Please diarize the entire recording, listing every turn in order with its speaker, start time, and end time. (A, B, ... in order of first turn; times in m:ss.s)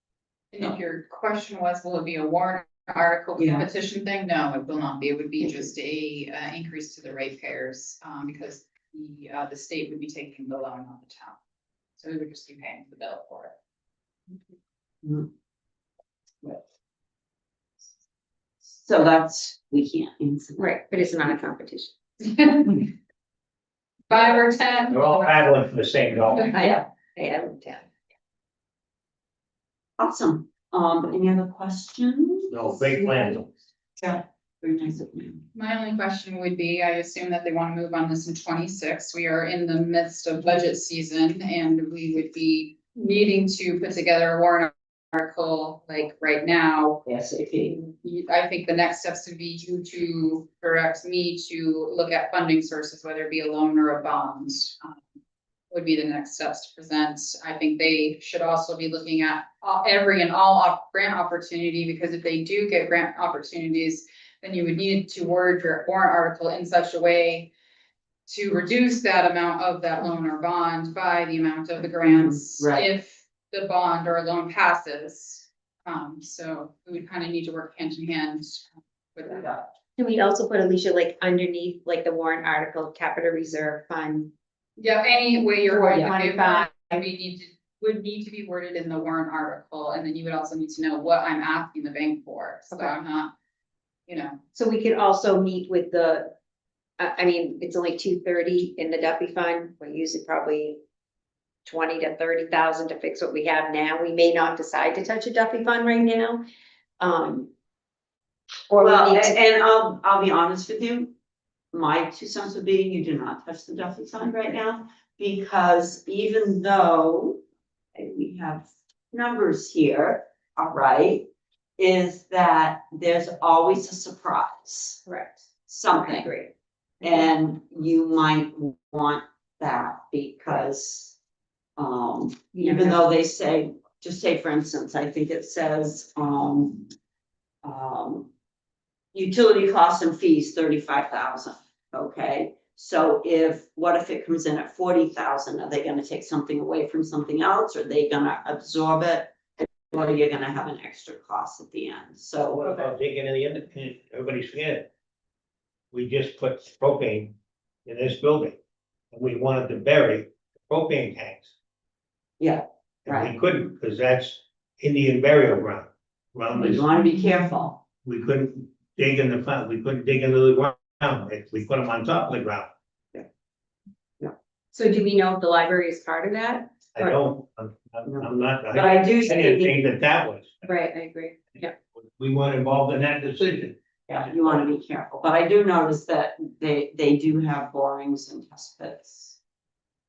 0:00.5-0:11.4 A
0:03.4-0:03.7 B
0:12.0-0:13.5 A
0:15.0-0:15.3 B
0:18.6-0:20.8 B
0:20.6-0:21.9 C
0:22.2-0:22.9 A
0:24.1-0:25.5 A
0:24.9-0:26.5 D
0:26.3-0:26.7 A
0:26.5-0:27.9 C
0:30.0-0:33.1 B
0:32.5-0:33.5 D
0:34.0-0:35.5 B
0:35.5-0:47.0 A
0:47.0-0:47.9 B
0:48.0-0:55.0 A
0:55.7-1:07.5 A
1:08.3-1:19.7 A
1:12.1-1:12.9 B
1:20.0-1:24.3 C
1:24.8-1:33.3 A
1:25.7-1:26.7 C
1:34.1-1:34.4 A
1:34.5-1:36.3 C
1:37.0-1:40.8 C
1:41.6-1:46.4 C
1:47.0-1:47.5 C
1:48.7-1:49.4 C
1:48.8-1:51.1 B
1:51.7-1:57.4 B
1:58.0-2:05.0 B
2:05.1-2:06.5 C
2:05.7-2:06.3 B
2:07.0-2:11.2 B
2:11.8-2:16.9 B
2:12.6-2:13.0 C
2:17.6-2:18.3 B
2:19.1-2:32.9 B
2:32.5-2:34.9 D
2:35.9-2:38.6 D
2:39.1-2:41.5 D
2:42.4-2:43.4 B
2:43.0-2:46.9 D
2:46.6-2:47.8 B
2:48.0-2:52.7 D
2:54.7-2:57.2 C
2:56.9-3:00.7 D
2:58.0-2:59.8 B
3:00.6-3:01.7 C
3:01.6-3:04.2 D
3:04.1-3:09.4 B